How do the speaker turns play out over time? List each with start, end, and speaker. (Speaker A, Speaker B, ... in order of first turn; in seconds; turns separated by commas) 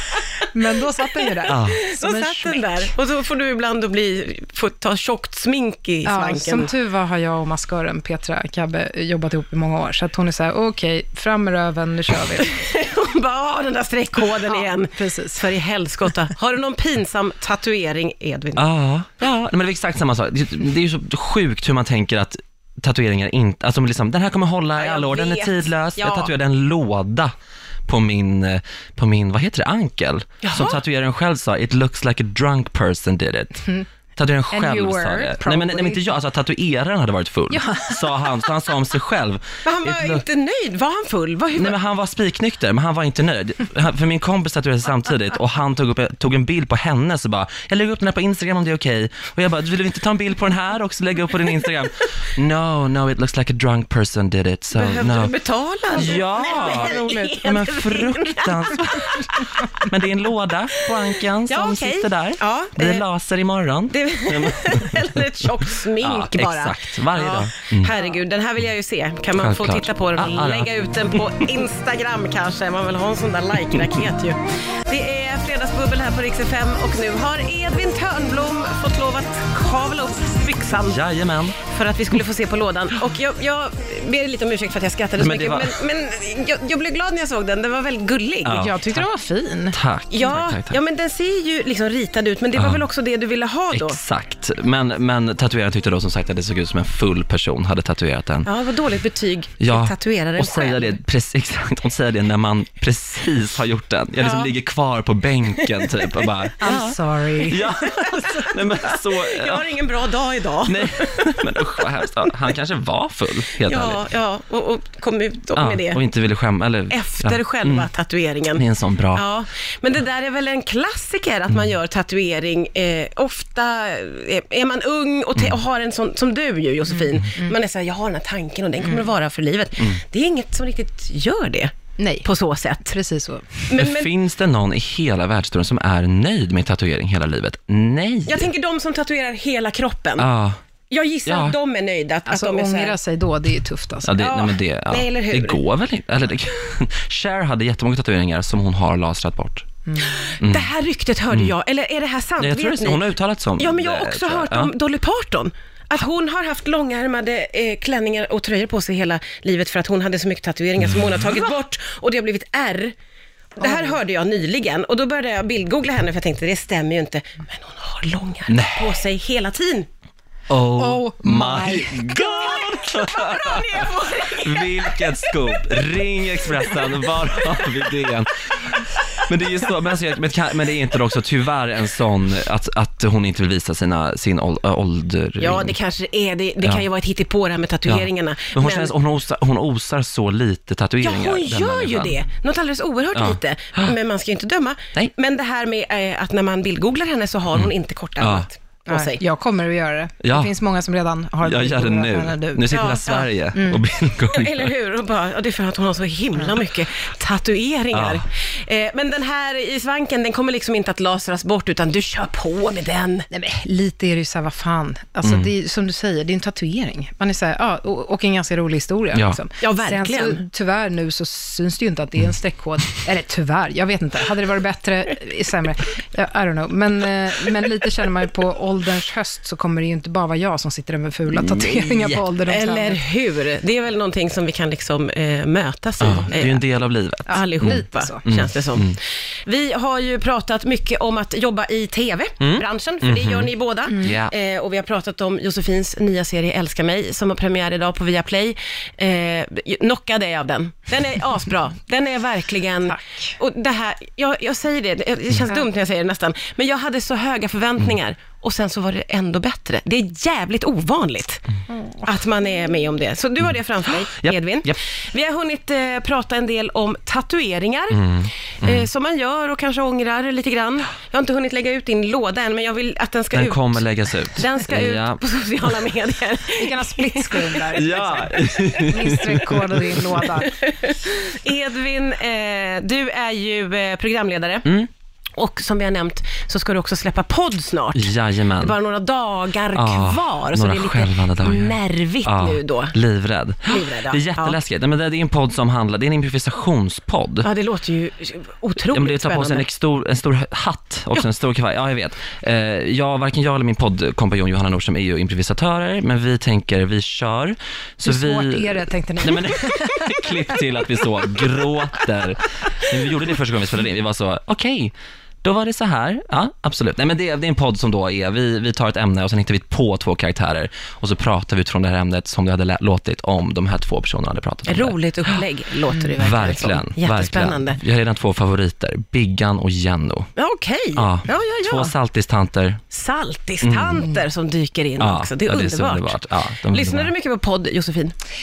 Speaker A: 0.5-2.9, Speaker B: 1.1-6.7, Speaker C: 1.5-1.8, Speaker A: 6.1-12.7, Speaker B: 12.4-18.6, Speaker A: 14.4-15.5, Speaker C: 18.6-27.3, Speaker B: 24.8-26.3, Speaker C: 27.9-40.2, Speaker B: 30.4-30.8, Speaker A: 34.5-36.1, Speaker A: 37.5-38.5, Speaker B: 39.6-41.8, Speaker C: 41.5-55.3, Speaker B: 54.7-59.5, Speaker C: 55.9-67.9, Speaker B: 61.5-63.0, Speaker B: 63.9-81.0, Speaker C: 69.4-71.2, Speaker C: 80.8-81.6, Speaker B: 81.6-88.7, Speaker C: 85.2-85.8, Speaker C: 88.5-89.1, Speaker A: 88.5-89.8, Speaker C: 89.7-90.8, Speaker B: 90.1-94.0, Speaker C: 92.6-92.8, Speaker C: 93.7-98.5, Speaker B: 98.5-101.0, Speaker C: 99.6-109.8, Speaker B: 104.2-104.5, Speaker A: 106.6-107.7, Speaker B: 107.8-111.5, Speaker C: 110.7-114.0, Speaker B: 113.6-116.0, Speaker C: 115.6-117.9, Speaker B: 116.9-131.7, Speaker C: 118.5-119.2, Speaker A: 132.0-132.3, Speaker B: 132.2-132.9, Speaker A: 132.8-133.7, Speaker B: 133.7-134.1, Speaker C: 133.8-138.5, Speaker B: 138.3-140.3, Speaker C: 140.2-140.6, Speaker B: 140.9-143.0, Speaker C: 141.3-141.6, Speaker A: 142.3-144.2, Speaker C: 144.1-149.7, Speaker B: 144.2-145.6, Speaker A: 149.9-150.3, Speaker B: 150.0-162.9, Speaker C: 150.4-150.7, Speaker C: 152.4-154.7, Speaker B: 163.6-169.9, Speaker A: 163.6-163.9, Speaker C: 168.5-169.0, Speaker C: 170.5-185.8, Speaker A: 170.8-172.5, Speaker B: 172.1-175.8, Speaker B: 176.6-176.9, Speaker B: 185.4-188.9, Speaker C: 187.9-192.2, Speaker B: 191.0-199.2, Speaker C: 193.2-193.9, Speaker C: 197.5-198.5, Speaker A: 198.9-202.9, Speaker C: 200.2-200.5, Speaker C: 201.4-204.7, Speaker B: 202.7-203.3, Speaker A: 203.5-203.8, Speaker B: 204.2-213.3, Speaker C: 207.9-208.2, Speaker A: 213.3-233.0, Speaker C: 215.2-215.5, Speaker C: 219.1-219.4, Speaker B: 219.6-220.4, Speaker C: 231.4-232.2, Speaker B: 232.5-236.6, Speaker C: 236.0-239.0, Speaker B: 237.3-261.4, Speaker A: 237.3-238.3, Speaker C: 242.4-243.5, Speaker A: 243.9-244.2, Speaker C: 244.0-244.3, Speaker A: 252.9-253.4, Speaker A: 261.7-262.7, Speaker B: 262.1-277.7, Speaker C: 264.0-264.8, Speaker C: 267.9-268.9, Speaker C: 273.3-275.7, Speaker A: 276.6-280.6, Speaker C: 277.7-280.1, Speaker B: 280.5-284.7, Speaker B: 285.4-293.0, Speaker C: 287.9-288.8, Speaker C: 289.7-297.5, Speaker B: 293.6-294.6, Speaker B: 297.4-299.7, Speaker C: 298.9-325.4, Speaker A: 308.0-310.7, Speaker B: 324.7-327.8, Speaker C: 326.2-330.3, Speaker B: 330.4-331.9, Speaker C: 331.0-332.8, Speaker B: 332.9-338.1, Speaker C: 333.6-334.1, Speaker C: 335.0-337.1